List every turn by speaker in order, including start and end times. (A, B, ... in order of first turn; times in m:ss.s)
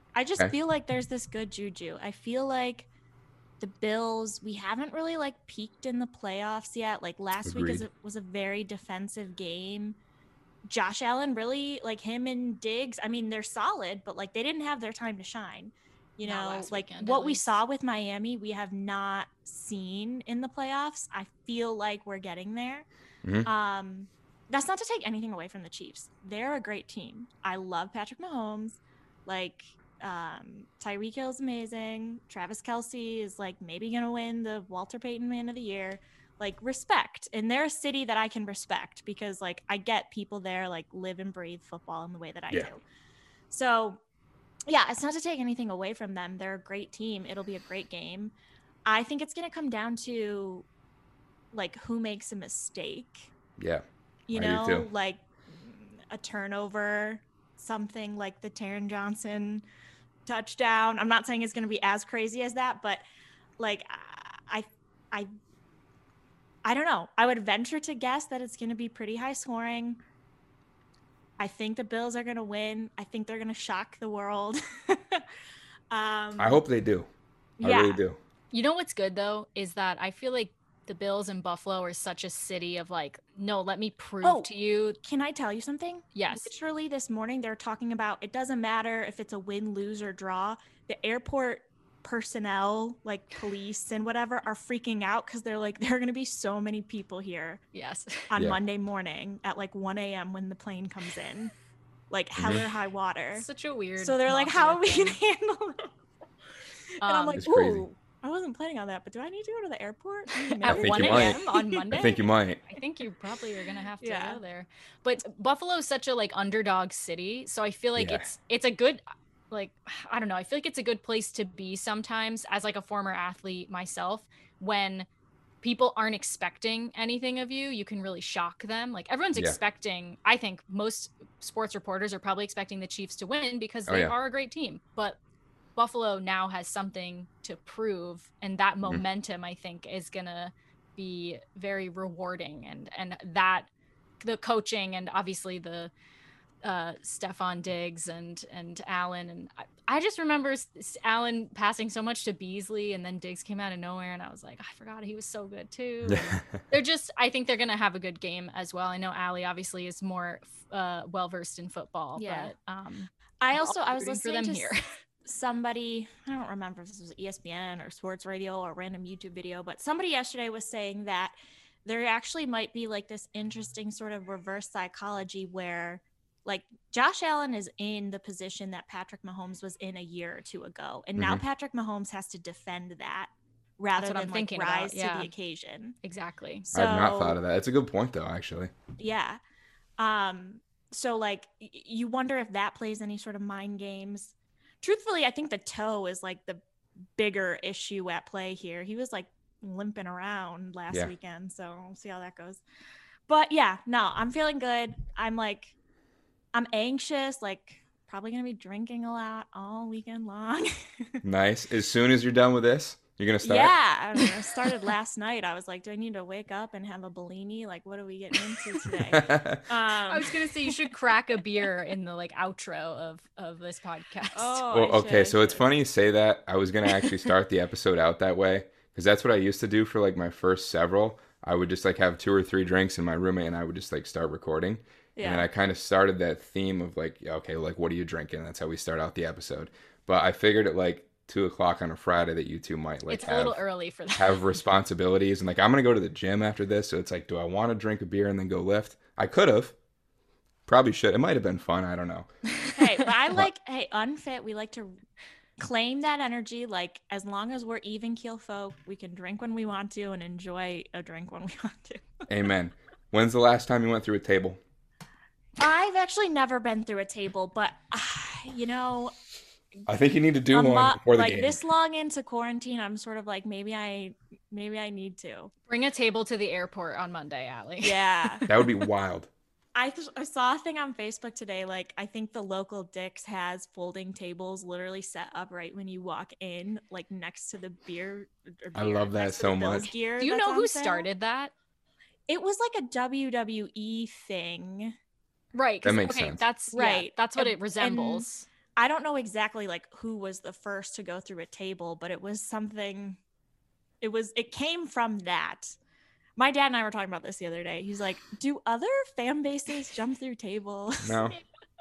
0:00.2-0:02.9 A
0:03.6-0:10.0 A
0:07.4-0:07.8 B
0:10.7-0:22.9 A
0:16.2-0:17.4 C
0:23.2-0:23.5 B
0:23.4-0:42.8 A
0:43.5-0:44.0 A
0:44.7-0:48.4 A
0:48.9-0:50.7 A
0:51.5-0:53.3 A
0:53.6-0:54.9 B
0:54.3-0:59.6 A
1:00.3-1:03.0 A
1:03.6-1:05.3 A
1:06.6-1:10.0 A
1:11.4-1:15.3 A
1:15.9-1:16.6 A
1:16.4-1:17.1 B
1:17.6-1:18.0 A
1:17.6-1:18.2 B
1:18.5-1:25.0 C
1:24.2-1:24.5 A
1:25.0-1:37.6 A
1:26.2-1:26.5 C
1:37.7-1:38.3 C
1:38.3-1:41.5 A
1:42.1-1:43.5 A
1:42.4-1:42.6 B
1:43.4-1:45.2 C
1:44.0-1:45.9 A
1:47.0-1:52.0 A
1:47.0-1:47.5 C
1:47.4-1:47.9 B
1:50.3-2:05.1 C
1:50.7-1:51.4 B
1:51.9-1:52.6 B
1:54.0-1:54.4 A
1:58.0-1:58.3 B
2:05.6-2:15.2 C
2:13.9-2:14.1 B
2:15.8-2:23.7 C
2:24.2-2:25.9 C
2:26.6-2:44.8 C
2:36.1-2:36.6 B
2:42.2-2:42.5 A
2:43.4-2:44.7 A
2:45.2-3:06.0 A
3:01.2-3:01.4 B
3:04.0-3:05.3 C
3:06.0-3:06.7 C
3:06.6-3:07.4 A
3:06.7-3:08.7 B
3:09.0-3:09.4 A
3:10.0-3:16.6 A
3:17.2-3:22.6 A
3:23.3-3:25.8 A
3:26.5-3:31.2 A
3:31.2-3:33.8 B
3:33.4-3:41.0 A
3:39.1-3:39.6 B
3:40.1-3:44.6 C
3:44.3-3:45.7 A
3:44.7-4:03.6 B
3:55.2-3:55.5 A
4:03.1-4:04.5 C
4:04.2-4:09.8 B
4:10.7-4:12.3 B
4:12.8-4:15.0 A
4:15.6-4:22.2 A
4:22.3-4:24.6 B
4:25.6-4:29.1 A
4:29.9-4:31.6 B
4:30.5-4:35.5 A
4:35.7-4:38.5 C
4:37.8-4:38.5 A
4:38.5-4:39.3 B
4:39.8-4:51.1 A
4:48.8-4:49.9 B
4:50.2-4:51.5 C
4:52.3-4:55.0 A
4:55.5-4:58.5 C
4:55.8-4:56.4 B
4:56.7-5:03.2 A
5:04.0-5:05.8 A
5:06.4-5:11.3 A
5:11.0-5:11.4 B